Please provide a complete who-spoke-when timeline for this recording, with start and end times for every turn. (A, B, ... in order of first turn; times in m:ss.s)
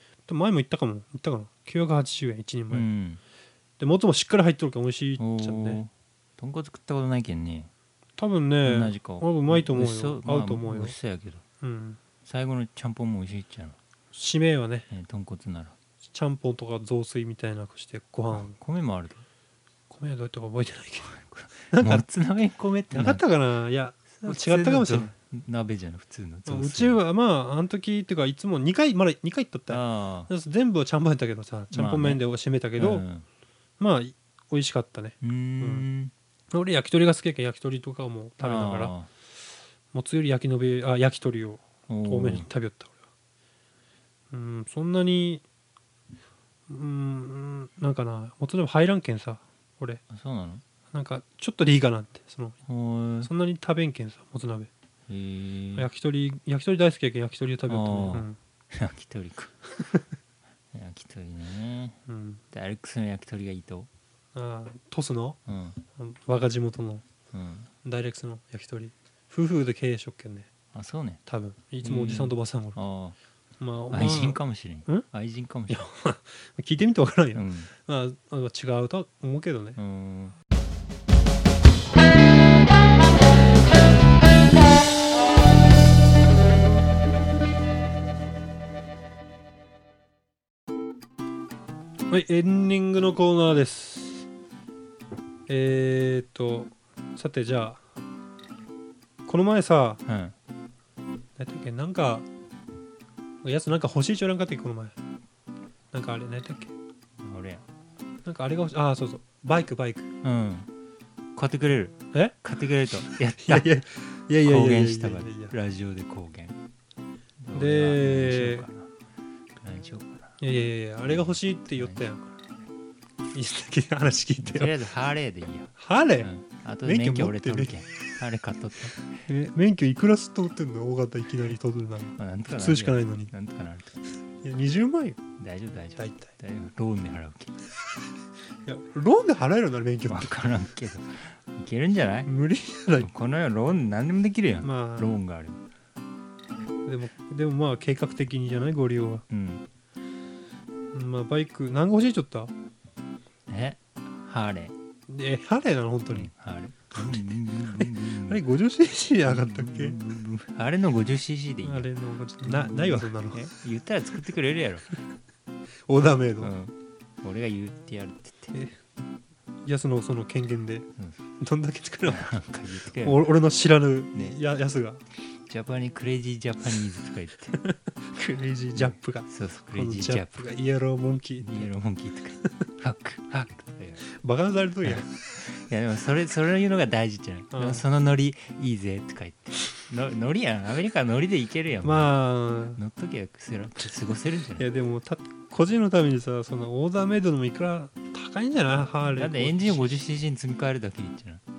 0:00.3-0:02.9 A
0:02.7-0:03.2 B
0:03.8-0:05.8 A
0:05.2-0:07.7 B
0:08.2-0:10.9 A
0:08.6-0:11.4 B
0:11.6-0:12.0 A
0:12.2-0:13.8 B
0:14.1-0:14.9 A
0:14.9-0:15.7 B
0:16.1-0:18.6 A
0:18.3-0:19.2 B
0:19.9-0:21.2 A
0:21.1-0:23.2 B
0:21.7-0:22.0 A
0:22.9-0:25.1 A
0:24.1-0:27.0 B
0:26.5-0:33.0 A
0:29.7-0:30.3 B
0:31.7-0:32.2 B
0:32.8-0:33.3 B
0:33.8-0:35.9 A
0:35.2-0:36.1 B
0:36.5-0:38.9 A
0:38.4-0:39.1 B
0:39.9-0:42.9 A
0:41.9-0:42.5 B
0:44.3-0:45.4 A
0:46.7-0:50.0 A
0:50.1-0:50.6 B
0:50.9-0:52.6 A
0:52.6-0:53.3 B
0:53.2-0:54.7 A
0:55.1-0:55.9 B
0:55.8-0:58.4 A
0:57.7-0:59.6 B
1:00.7-1:02.0 B
1:02.1-1:02.4 A
1:02.5-1:03.9 B
1:04.4-1:05.4 A
1:05.4-1:05.8 B
1:06.0-1:07.0 A
1:07.3-1:07.7 B
1:07.8-1:10.5 A
1:10.7-1:11.2 B
1:11.3-1:12.8 A
1:11.8-1:13.2 B
1:13.6-1:15.1 A
1:13.9-1:15.9 B
1:15.7-1:19.8 A
1:17.3-1:17.7 B
1:19.8-1:20.4 B
1:32.1-1:34.3 A
1:35.5-1:37.8 A
1:39.3-1:40.0 A
1:40.0-1:40.4 B
1:41.4-1:42.3 A
1:43.4-1:44.9 A
1:45.9-1:46.7 A
1:47.2-1:47.6 B
1:48.2-1:50.1 A
1:50.2-1:50.7 B
1:51.4-1:53.7 B
1:53.0-1:55.5 A
1:54.4-1:56.6 B
1:57.4-1:58.9 B
1:57.5-1:58.6 A
1:59.6-2:00.4 B
2:00.4-2:02.2 A
2:01.0-2:02.3 B
2:03.3-2:04.8 A
2:04.4-2:09.1 B
2:05.8-2:06.3 A
2:06.8-2:07.7 A
2:09.3-2:13.3 A
2:12.2-2:14.0 B
2:14.4-2:15.2 A
2:15.4-2:17.6 B
2:16.0-2:16.3 A
2:18.6-2:20.3 A
2:20.1-2:22.3 B
2:22.3-2:23.1 A
2:23.0-2:25.6 B
2:24.6-2:25.1 A
2:26.9-2:29.2 A
2:29.3-2:29.6 B
2:30.9-2:32.5 A
2:33.5-2:34.7 B
2:35.1-2:36.3 A
2:36.1-2:38.4 B
2:38.2-2:40.0 A
2:39.3-2:41.9 B
2:41.6-2:43.5 A
2:42.4-2:44.9 B
2:45.9-2:46.5 A
2:46.4-2:48.5 B
2:48.5-2:48.8 A
2:49.6-2:50.9 A
2:51.0-2:51.2 B
2:51.4-2:52.3 A
2:52.1-2:53.3 B
2:53.0-2:55.0 A
2:55.5-2:57.6 B
2:57.5-3:01.7 A
2:58.7-3:00.4 B
3:01.4-3:04.1 B
3:04.1-3:05.1 A
3:04.8-3:12.1 B
3:07.5-3:07.8 A
3:11.8-3:12.8 A
3:12.8-3:14.6 B
3:14.6-3:19.8 A
3:19.0-3:21.4 B